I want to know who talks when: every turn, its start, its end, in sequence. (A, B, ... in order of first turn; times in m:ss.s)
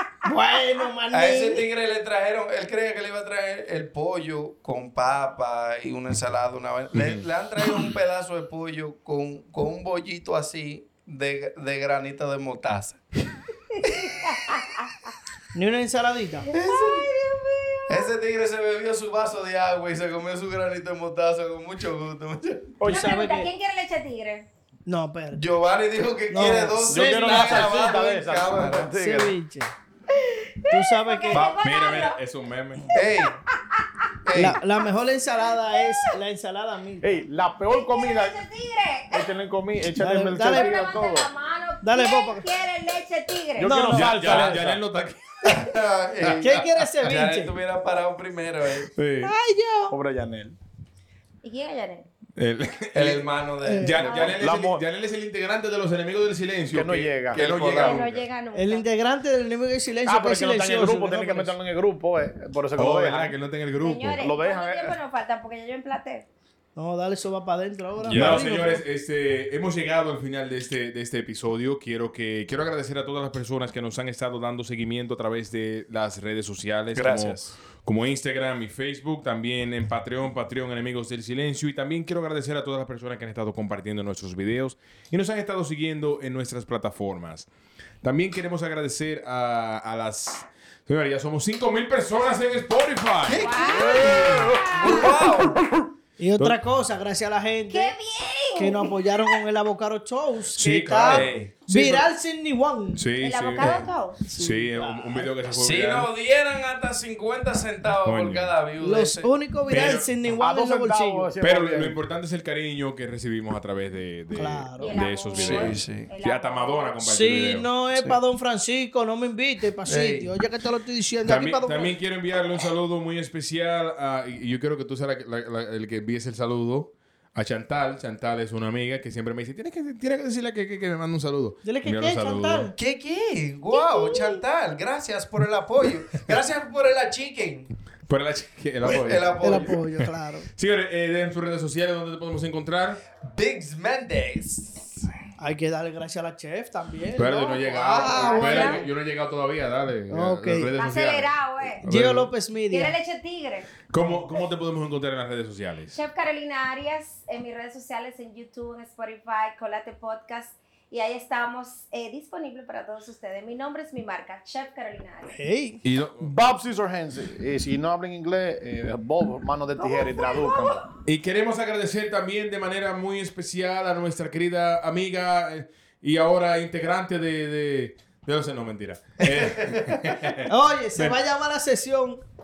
0:00.2-0:01.6 A
0:01.1-0:13.0 B
0:06.9-0:07.2 C
0:13.7-0:15.1 D
0:15.5-0:16.5 A
0:16.5-0:18.1 D
0:16.5-0:17.1 B
0:17.9-0:22.8 B
0:22.8-0:23.1 E
0:22.8-0:23.5 A
0:22.8-0:24.5 D
0:24.8-0:25.4 A
0:25.3-0:28.9 B
0:26.3-0:27.8 A
0:26.9-0:29.3 E
0:28.9-0:29.7 A
0:30.2-0:32.2 D
0:30.7-0:31.4 A
0:31.3-0:31.6 B
0:31.6-0:32.9 C
0:32.9-0:33.4 B
0:33.5-0:34.1 D
0:34.2-0:34.6 B
0:34.3-0:37.1 A
0:35.7-0:36.1 D
0:37.0-0:38.4 E
0:37.7-0:39.3 D
0:39.1-0:41.3 E
0:40.0-0:40.8 A
0:40.4-0:43.9 D
0:41.8-0:42.5 A
0:43.6-0:44.8 E
0:43.6-0:44.5 A
0:43.9-0:46.9 C
0:45.4-0:48.9 B
0:46.4-0:47.6 A
0:48.9-0:49.3 C
0:49.2-0:50.0 A
0:49.9-0:50.6 E
0:51.4-0:52.1 D
0:52.4-0:58.3 C
0:52.9-0:54.3 B
0:53.6-0:54.2 A
0:54.0-0:54.3 D
0:54.2-0:54.8 E
0:56.7-0:57.4 E
0:57.3-0:58.0 B
0:57.7-0:58.8 D
0:58.5-1:01.6 A
1:00.0-1:03.4 E
1:02.8-1:04.2 C
1:03.8-1:06.3 D
1:04.2-1:05.0 E
1:06.8-1:08.8 A
1:08.0-1:08.6 B
1:08.1-1:27.5 C
1:16.9-1:17.5 B
1:28.0-1:34.6 C
1:33.2-1:35.6 B
1:33.4-1:35.1 D
1:36.2-1:38.0 A
1:37.7-1:38.9 D
1:38.6-1:43.1 A
1:40.5-1:42.1 C
1:41.0-1:41.5 B
1:42.9-1:46.1 C
1:43.2-1:44.2 D
1:43.6-1:45.3 A
1:45.5-1:50.3 B
1:48.0-1:48.6 C
1:48.8-1:51.3 A
1:49.7-1:50.1 C
1:50.4-1:52.0 E
1:51.4-1:57.7 C
1:54.3-1:54.9 A
1:54.8-1:57.0 D
1:55.4-1:56.1 B
1:57.0-2:01.9 A
1:59.8-2:00.3 B
2:01.2-2:12.7 C
2:11.6-2:12.7 A
2:12.7-2:17.7 B
2:13.7-2:14.4 A
2:18.1-2:23.0 C
2:18.8-2:19.8 B
2:19.4-2:20.5 A
2:23.2-2:25.1 B
2:25.4-2:28.7 A
2:27.2-2:32.3 C
2:27.7-2:28.8 B
2:28.0-2:28.8 D
2:30.1-2:30.7 A
2:30.7-2:31.9 D
2:31.8-2:33.0 A
2:32.7-2:33.7 D
2:33.9-2:36.0 C
2:35.9-2:45.3 D
2:45.3-2:45.8 A
2:45.8-2:46.3 C
2:46.2-2:50.8 E
2:49.8-2:50.8 D
2:51.0-3:01.2 C
2:59.2-3:00.2 B
3:00.5-3:02.2 A